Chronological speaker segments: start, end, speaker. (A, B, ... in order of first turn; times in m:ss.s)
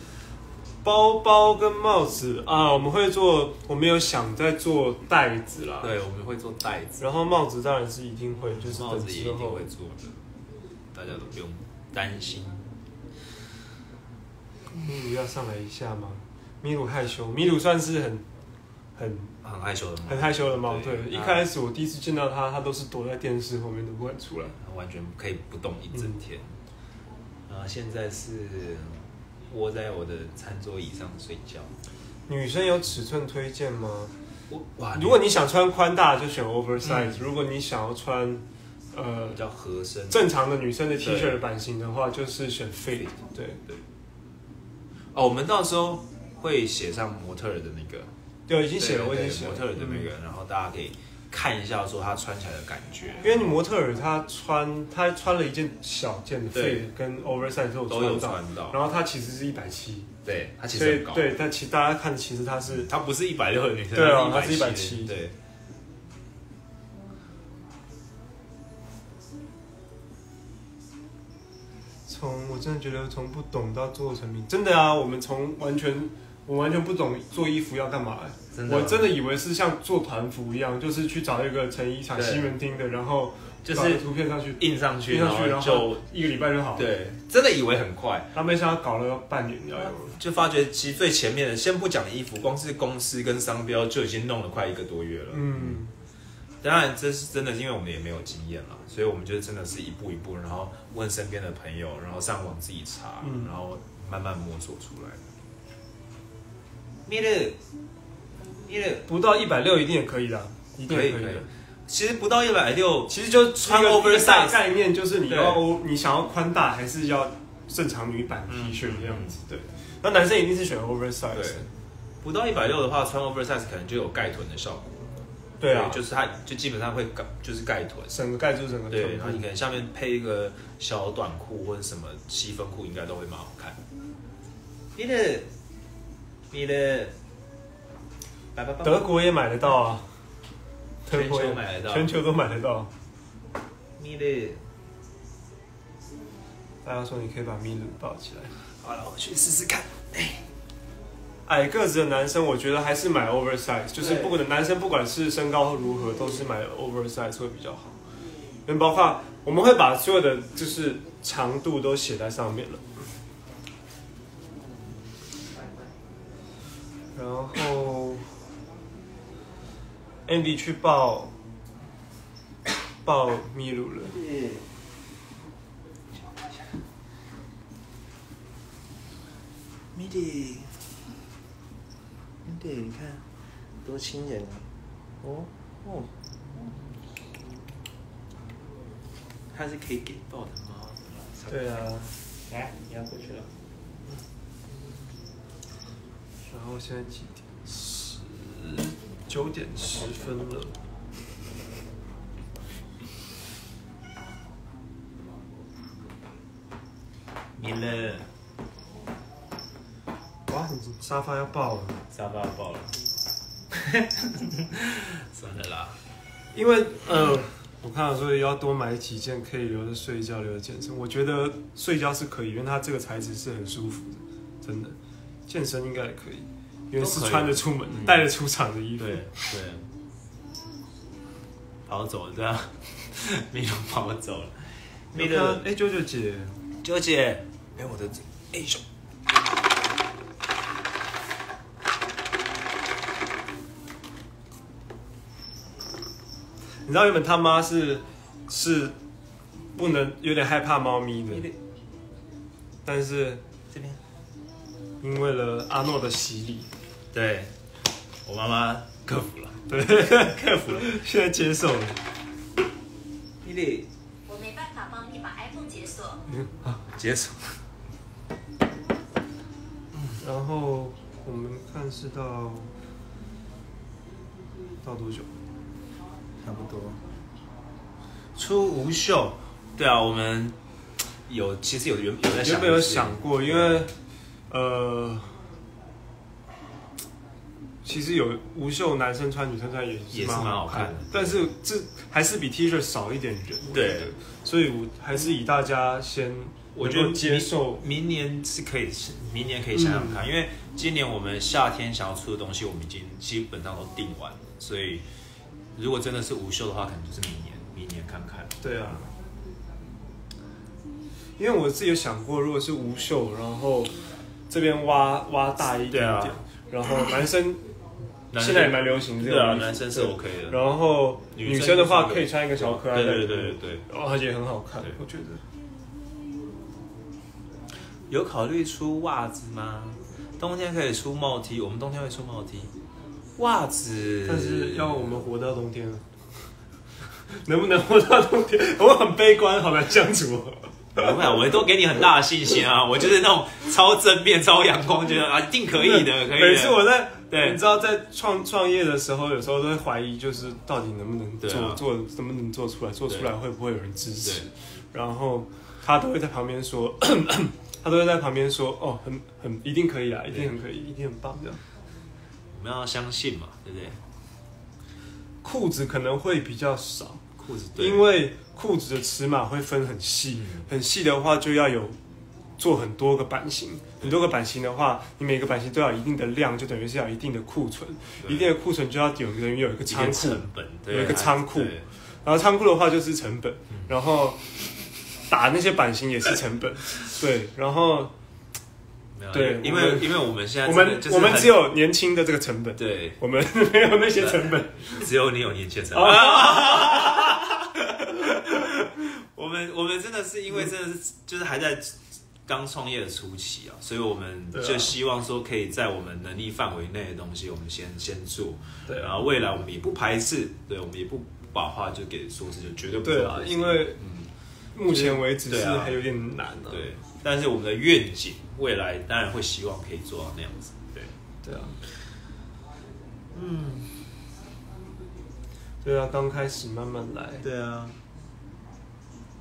0:00.8-0:05.9 A
0:05.8-0:07.0 B
0:07.0-0:09.7 A
0:08.6-0:10.2 B
0:10.9-0:12.8 B
0:14.7-0:18.2 A
0:19.0-0:19.3 A
0:19.4-0:21.5 B
0:20.0-0:24.6 A
0:24.6-0:26.5 B
0:27.5-0:31.7 B
0:32.3-0:34.1 A
0:34.5-0:35.2 B
0:34.9-0:39.4 A
0:36.9-0:37.2 B
0:39.3-0:40.2 B
0:40.1-0:43.6 A
0:41.0-0:41.4 B
0:45.1-0:48.1 B
0:48.5-0:50.1 A
0:48.8-0:53.5 B
0:53.2-1:00.1 A
0:56.5-0:56.8 B
0:57.9-0:58.8 B
1:00.2-1:01.3 B
1:00.7-1:02.9 A
1:02.8-1:05.4 B
1:03.9-1:05.2 A
1:12.1-1:26.9 A
1:18.5-1:19.1 B
1:22.1-1:22.5 B
1:23.6-1:24.0 B
1:24.6-1:26.0 B
1:26.7-1:28.3 B
1:28.3-1:30.2 A
1:29.8-1:35.8 B
1:35.3-1:35.9 A
1:36.6-1:45.2 B
1:43.2-1:43.5 A
1:47.0-1:47.6 B
1:48.7-1:49.0 B
1:49.1-1:51.5 A
1:50.9-1:54.6 B
1:53.1-2:01.7 A
1:55.2-1:55.6 B
1:58.5-1:59.4 B
2:01.3-2:01.6 B
2:02.2-2:08.1 B
2:05.6-2:06.1 A
2:08.1-2:09.4 A
2:08.9-2:13.8 B
2:14.9-2:15.5 B
2:16.5-2:17.1 B
2:18.5-2:19.1 B
2:18.8-2:20.1 A
2:21.0-2:22.9 A
2:21.1-2:22.1 B
2:24.0-2:24.6 B
2:26.8-2:28.6 A
2:28.8-2:30.4 B
2:31.4-2:38.0 A
2:34.0-2:34.4 B
2:38.6-2:42.9 A
2:47.1-2:48.3 A
2:50.3-2:51.3 A
2:53.0-2:54.2 A
2:54.2-2:54.6 B
2:56.2-2:56.8 B
2:59.9-3:00.9 B
3:02.4-3:03.3 B
3:03.8-3:04.7 B
3:05.2-3:06.8 B
3:09.5-3:11.6 B
3:11.5-3:12.1 A
3:12.5-3:13.5 B
3:16.5-3:20.8 A
3:27.6-3:28.3 B
3:30.5-3:32.0 A
3:32.1-3:33.0 B
3:33.7-3:36.0 B
3:36.5-3:45.0 A
3:45.5-3:49.5 A
3:47.0-3:48.3 B
3:49.0-3:49.9 B
3:51.9-3:55.6 B
3:55.1-3:56.5 A
3:56.8-3:58.8 B
4:06.8-4:08.9 A
4:09.7-4:11.5 A
4:11.3-4:11.6 B
4:12.8-4:13.4 A
4:13.7-4:14.0 B
4:15.0-4:16.7 A
4:17.1-4:17.5 B
4:18.2-4:20.9 B
4:19.7-4:22.0 A
4:23.4-4:23.9 B
4:24.3-4:26.2 C
4:26.3-4:26.7 A
4:26.8-4:27.6 B
4:30.2-4:32.7 A
4:34.8-4:35.3 A
4:36.4-4:37.0 B
4:38.4-4:40.6 B
4:41.3-4:43.9 B
4:42.4-4:43.9 A
4:44.5-4:45.4 A
4:47.8-4:57.8 A
4:50.1-4:51.5 B
4:53.7-4:54.1 B
4:56.7-5:05.0 B
4:59.7-5:00.2 A
5:05.7-5:08.9 B
5:08.6-5:09.1 A
5:11.4-5:14.0 A
5:14.5-5:17.6 A
5:15.9-5:16.4 B
5:18.3-5:20.6 B
5:18.3-5:25.4 A
5:21.3-5:23.8 B
5:28.1-5:32.7 B
5:33.4-5:35.2 B
5:34.2-5:36.2 A
5:37.3-5:41.4 A
5:40.9-5:47.6 B
5:45.7-6:01.6 A
5:51.4-5:51.8 B
6:02.5-6:04.0 B
6:05.4-6:07.2 A
6:07.4-6:08.1 B
6:07.8-6:12.0 A
6:10.4-6:10.6 B
6:12.6-6:24.5 A
6:18.2-6:18.5 B
6:19.9-6:21.8 B
6:25.2-6:28.1 A
6:29.2-6:31.7 B
6:29.3-6:35.1 A
6:32.8-6:33.2 B
6:35.0-6:54.3 B
6:35.9-6:37.4 A
6:44.5-6:44.9 A
6:48.9-6:49.2 A
6:53.0-6:54.0 A
6:54.7-6:56.9 A
6:54.8-6:56.0 B
6:56.7-7:01.1 B
7:01.4-7:01.8 A
7:03.3-7:04.0 B
7:05.8-7:07.4 A
7:07.4-7:08.0 B